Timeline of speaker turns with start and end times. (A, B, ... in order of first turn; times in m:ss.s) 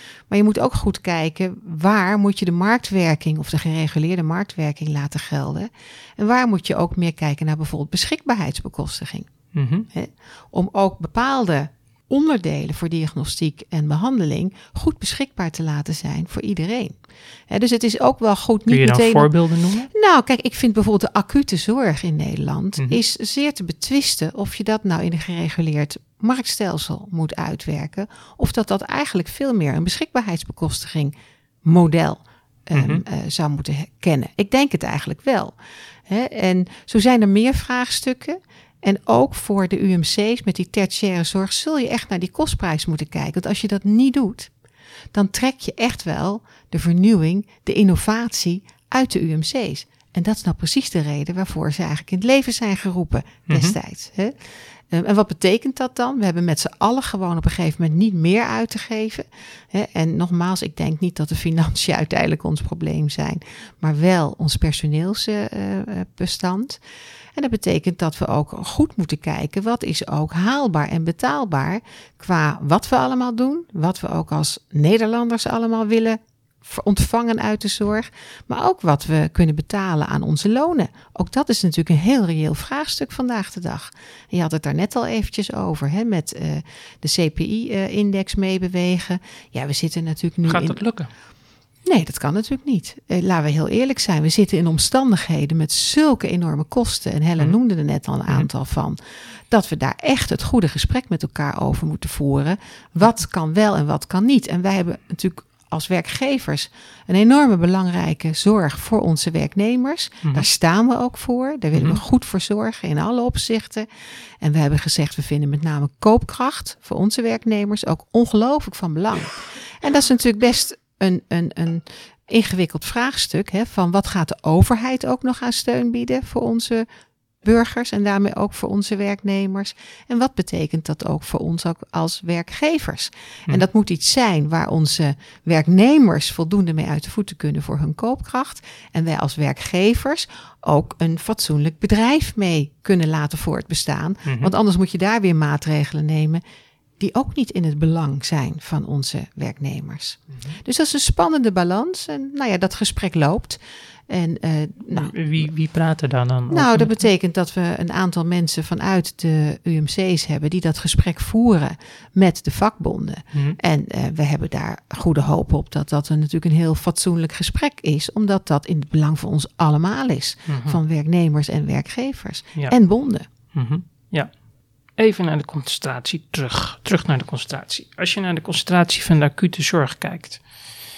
0:00.3-0:09.3 A
0:09.5-0:09.9 B
0:09.9-0:16.9 A
0:17.5-0:19.3 A
0:18.7-0:19.9 B
0:19.9-0:31.1 A
0:31.7-0:35.6 A
0:32.7-0:33.0 B
0:36.1-0:44.5 A
0:45.1-0:54.3 A
0:53.5-0:53.8 B
0:54.9-1:06.8 A
1:07.4-1:30.8 A
1:30.5-1:31.1 B
1:31.9-1:39.0 A
1:39.5-1:53.9 A
1:51.8-1:52.0 B
1:54.4-2:06.9 A
2:07.4-2:26.4 A
2:24.3-2:24.5 B
2:27.0-2:35.3 A
2:34.9-2:36.9 B
2:36.5-2:53.2 A
2:50.5-2:50.8 B
2:53.5-2:54.3 B
2:55.0-3:00.4 B